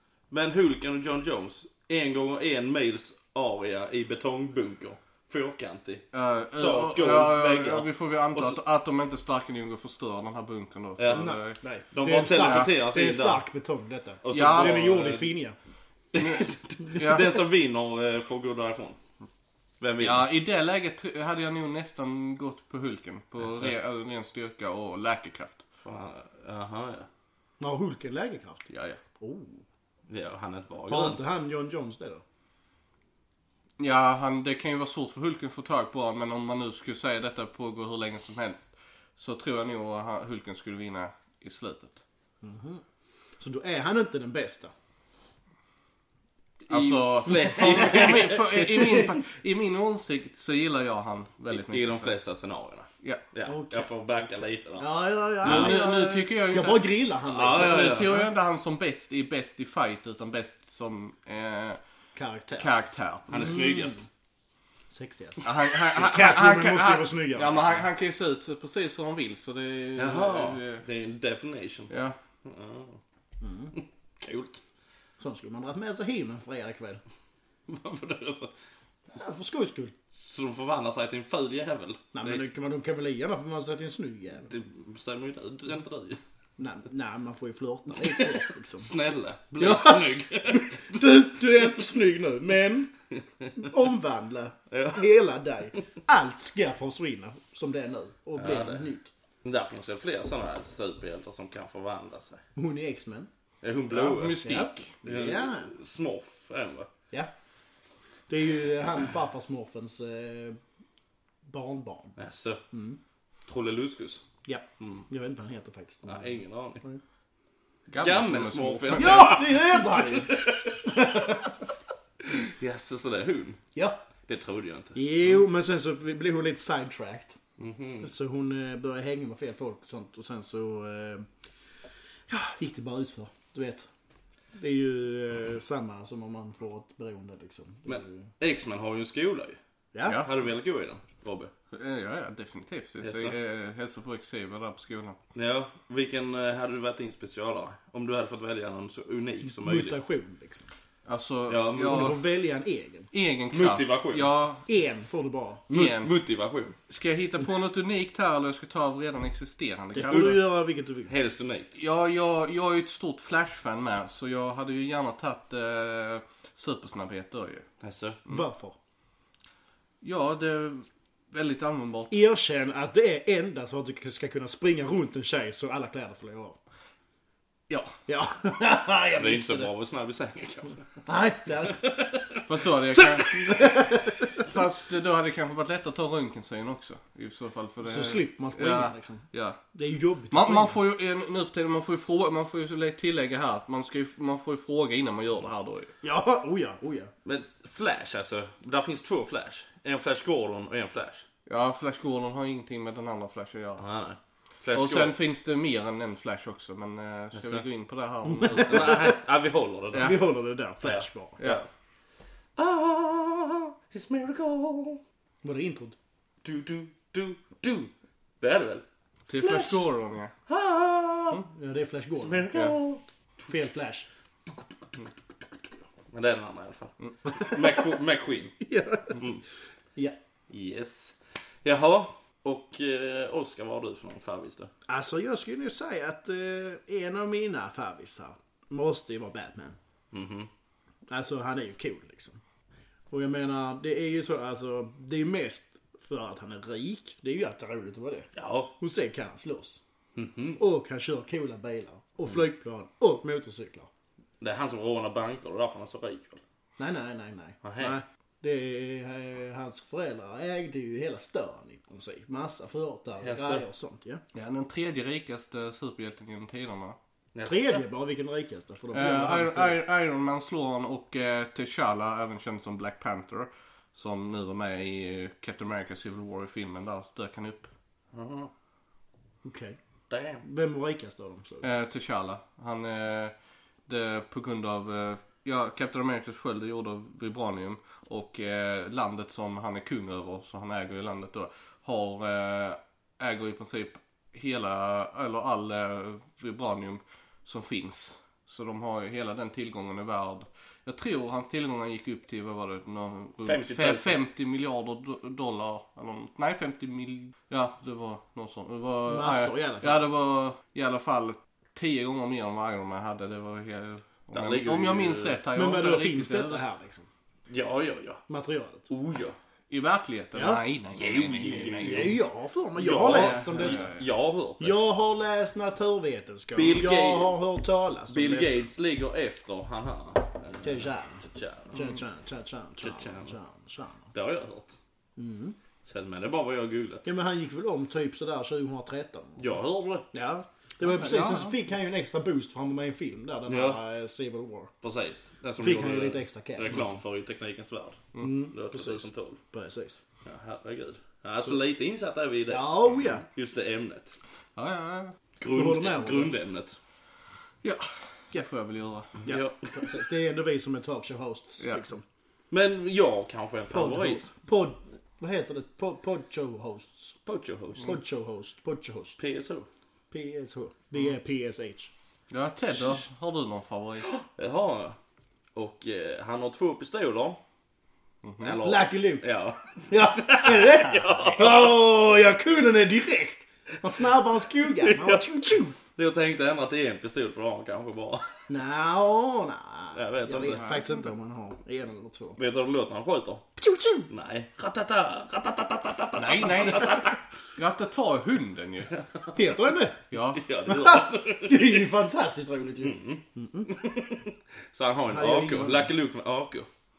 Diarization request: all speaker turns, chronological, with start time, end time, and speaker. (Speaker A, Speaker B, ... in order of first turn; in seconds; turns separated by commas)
Speaker A: 0.3-6.0, Speaker B: 6.1-11.6, Speaker A: 6.6-8.6, Speaker A: 11.0-11.3, Speaker C: 11.1-15.6, Speaker A: 11.9-13.4, Speaker B: 12.2-12.7, Speaker A: 14.2-15.3, Speaker B: 14.3-14.9, Speaker A: 16.1-19.0, Speaker B: 16.1-17.4, Speaker A: 19.8-20.3, Speaker B: 20.0-25.6, Speaker A: 23.5-23.8, Speaker A: 25.8-27.1, Speaker C: 27.6-28.6, Speaker B: 28.7-29.0, Speaker C: 29.2-29.6, Speaker A: 30.1-31.2, Speaker C: 30.9-32.2, Speaker B: 33.8-42.0, Speaker C: 42.4-42.8, Speaker C: 43.4-44.7, Speaker A: 46.7-48.9, Speaker B: 46.7-52.1, Speaker C: 47.3-48.3, Speaker A: 51.5-55.9, Speaker C: 53.4-53.9, Speaker C: 54.8-58.2, Speaker B: 55.4-56.9, Speaker A: 57.2-58.2, Speaker B: 57.5-61.8, Speaker C: 62.1-62.7, Speaker B: 62.6-63.5, Speaker A: 63.3-64.1, Speaker C: 63.3-64.0, Speaker C: 64.9-67.8, Speaker B: 65.4-70.8, Speaker A: 70.0-71.9, Speaker B: 71.9-72.2, Speaker A: 72.4-73.0, Speaker C: 73.4-73.7, Speaker A: 73.7-74.6, Speaker C: 75.2-77.0, Speaker A: 77.7-78.5, Speaker C: 79.1-79.9, Speaker A: 80.1-82.4, Speaker C: 82.1-84.5, Speaker A: 84.5-86.2, Speaker C: 86.6-88.9, Speaker A: 88.0-91.0, Speaker C: 89.6-92.9, Speaker C: 93.5-99.1, Speaker A: 94.7-95.1, Speaker A: 98.4-98.9, Speaker A: 99.4-102.4, Speaker C: 102.5-103.3, Speaker A: 103.6-106.9, Speaker B: 103.9-104.9, Speaker C: 104.4-105.7, Speaker C: 108.3-110.6, Speaker C: 111.5-112.2, Speaker A: 112.2-112.6, Speaker C: 112.7-113.0, Speaker A: 113.5-114.2, Speaker C: 114.4-117.0, Speaker A: 114.8-115.0, Speaker A: 116.0-116.8, Speaker B: 117.9-119.4, Speaker A: 118.0-121.3, Speaker C: 118.9-121.5, Speaker A: 122.2-123.6, Speaker A: 124.3-125.0, Speaker C: 124.9-127.4, Speaker A: 127.6-128.1, Speaker C: 128.0-131.3, Speaker C: 132.3-133.9, Speaker C: 134.5-138.3, Speaker A: 137.8-141.5, Speaker C: 139.9-140.2, Speaker B: 140.0-140.3, Speaker B: 141.7-145.2, Speaker A: 143.0-143.3, Speaker A: 145.3-150.0, Speaker C: 149.4-150.7, Speaker B: 151.1-152.2, Speaker A: 151.5-152.2, Speaker C: 151.8-153.1, Speaker B: 153.1-154.7, Speaker A: 153.5-154.3, Speaker C: 154.7-155.6, Speaker B: 155.7-156.1, Speaker A: 155.7-156.8, Speaker B: 156.9-160.4, Speaker C: 159.9-161.1, Speaker A: 160.1-160.4, Speaker A: 161.1-161.8, Speaker B: 161.7-167.7, Speaker A: 167.8-168.2, Speaker C: 168.3-168.8, Speaker B: 170.0-172.2, Speaker C: 172.1-176.6, Speaker B: 177.7-177.9, Speaker C: 178.1-179.7, Speaker A: 179.2-180.8, Speaker C: 181.0-181.8, Speaker A: 181.7-182.4, Speaker B: 182.4-189.6, Speaker A: 182.9-183.8, Speaker C: 183.6-184.2, Speaker C: 187.8-190.8, Speaker B: 190.3-195.9, Speaker C: 196.0-197.1, Speaker A: 197.2-201.2, Speaker B: 201.4-203.8, Speaker A: 203.8-205.2, Speaker B: 204.7-209.1, Speaker A: 207.3-207.6, Speaker C: 208.3-209.1, Speaker A: 208.4-210.2, Speaker B: 209.9-210.2, Speaker C: 210.0-211.4, Speaker A: 210.8-211.7, Speaker A: 212.6-215.0, Speaker C: 215.4-215.9, Speaker A: 216.4-219.8, Speaker B: 219.3-220.3, Speaker A: 220.5-221.4, Speaker C: 221.5-222.5, Speaker A: 222.2-223.0, Speaker C: 223.5-224.1, Speaker A: 226.1-229.4, Speaker C: 227.3-227.6, Speaker C: 228.6-229.2, Speaker A: 230.5-234.7, Speaker C: 234.9-239.8, Speaker A: 240.1-240.5, Speaker C: 241.1-242.4, Speaker C: 243.1-249.8, Speaker A: 248.3-248.7, Speaker A: 250.2-250.6, Speaker C: 250.6-253.9, Speaker A: 254.4-256.4, Speaker C: 256.8-264.2, Speaker A: 257.6-257.9, Speaker A: 263.2-263.6, Speaker B: 264.3-267.0, Speaker A: 267.3-267.8, Speaker C: 267.4-269.8, Speaker B: 268.9-277.7, Speaker A: 278.1-278.5, Speaker C: 279.4-279.8, Speaker A: 280.1-280.4, Speaker C: 280.4-281.7, Speaker B: 281.6-283.3, Speaker B: 283.9-316.6, Speaker A: 303.4-304.2, Speaker C: 309.1-310.0, Speaker A: 314.3-315.4, Speaker C: 315.5-317.1, Speaker A: 317.5-318.2, Speaker C: 318.3-318.9, Speaker A: 318.9-319.4, Speaker B: 319.7-322.2, Speaker C: 320.3-320.6, Speaker A: 320.9-322.2, Speaker C: 321.4-323.9, Speaker A: 322.8-324.8, Speaker B: 323.1-324.0, Speaker C: 324.6-328.5, Speaker A: 326.5-327.4, Speaker A: 328.1-331.9, Speaker C: 330.6-334.0, Speaker A: 332.8-333.4, Speaker A: 334.1-334.8, Speaker C: 335.2-335.6, Speaker A: 335.9-337.1, Speaker C: 337.0-339.5, Speaker A: 339.4-340.1, Speaker C: 340.1-344.7, Speaker B: 340.9-341.5, Speaker A: 341.1-341.4, Speaker A: 343.5-343.8, Speaker A: 344.8-349.4, Speaker C: 345.6-346.8, Speaker C: 348.2-350.0, Speaker A: 350.2-354.2, Speaker C: 352.5-353.2, Speaker B: 354.6-355.2, Speaker A: 355.4-356.8, Speaker C: 355.5-356.3, Speaker B: 357.6-359.2, Speaker C: 359.2-362.0, Speaker A: 359.2-359.9, Speaker A: 362.5-364.3, Speaker C: 363.7-367.2, Speaker A: 367.2-368.0, Speaker C: 367.8-369.2, Speaker A: 369.2-369.7, Speaker C: 370.1-371.9, Speaker B: 372.3-374.1, Speaker A: 374.0-375.0, Speaker A: 375.5-377.4, Speaker B: 378.2-378.6, Speaker A: 378.4-381.7, Speaker C: 378.6-379.3, Speaker C: 379.9-385.8, Speaker A: 384.6-388.4, Speaker C: 388.5-392.4, Speaker A: 389.9-390.7, Speaker B: 390.5-391.0, Speaker A: 392.4-393.5, Speaker C: 393.6-394.1, Speaker A: 394.1-397.2, Speaker B: 396.2-398.9, Speaker A: 398.9-399.3, Speaker C: 399.3-400.0, Speaker B: 400.1-400.4, Speaker A: 400.3-401.9, Speaker C: 400.6-403.9, Speaker A: 402.8-406.7, Speaker C: 405.1-405.9